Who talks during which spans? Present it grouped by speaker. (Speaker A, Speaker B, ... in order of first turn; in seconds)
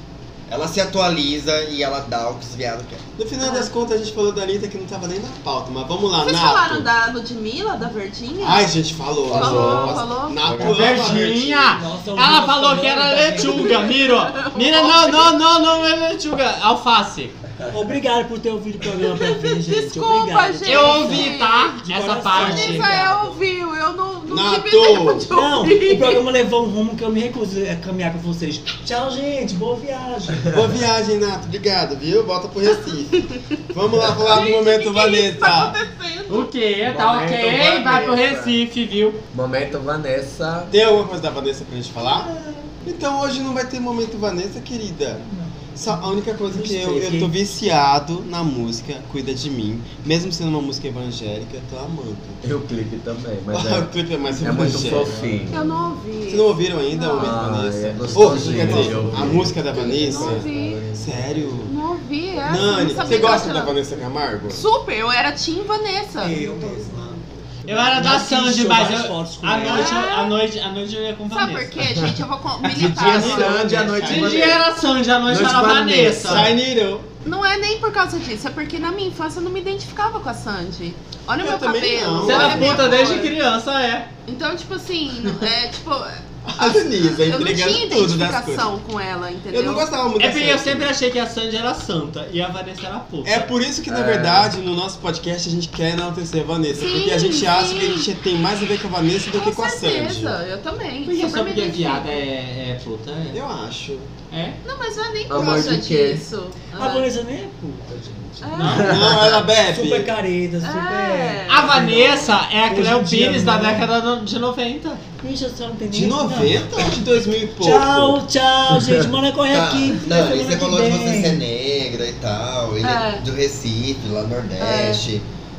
Speaker A: 0.5-3.0, 119.5-125.2
Speaker B: 3.2-6.9, 8.4-11.8, 24.3-25.3, 30.5-35.8, 40.7-42.3, 42.8-52.4, 53.5-55.5, 56.3-61.7, 62.4-64.7, 72.7-74.6, 76.2-77.1, 81.4-83.2, 86.5-88.7, 89.5-90.9, 93.2-100.4, 103.3-104.1, 108.8-110.1, 115.9-118.2
Speaker C: 3.4-3.7, 6.2-8.7, 9.3-10.7, 13.4-15.3, 19.1-21.7, 22.3-26.2, 34.2-36.5, 55.5-57.6, 59.9-60.9, 61.6-63.8, 64.5-66.5, 69.6-70.4, 71.3-73.8, 77.2-83.3, 84.3-89.9, 96.7-98.1, 99.3-102.1, 104.6-107.1, 108.4-109.0, 110.6-111.7, 122.8-123.2, 124.6-125.0
Speaker D: 9.3-10.8, 36.9-38.5, 39.3-40.7, 46.6-47.1, 52.4-55.7, 57.1-61.5, 72.7-74.6, 75.2-76.5, 93.9-94.5, 105.3-106.2, 109.0-109.3
Speaker E: 10.6-17.3, 20.6-22.9, 36.3-39.2, 67.7-71.8, 74.0-76.5, 82.2-84.1, 90.2-93.5, 101.0-103.4, 104.3-104.6, 108.6-109.0, 111.5-115.0
Speaker F: 10.8-13.8, 17.7-23.4, 25.3-30.5, 45.3-46.0, 46.8-47.2, 58.4-59.0, 66.2-70.0, 106.7-113.9, 115.2-117.0, 117.6-121.4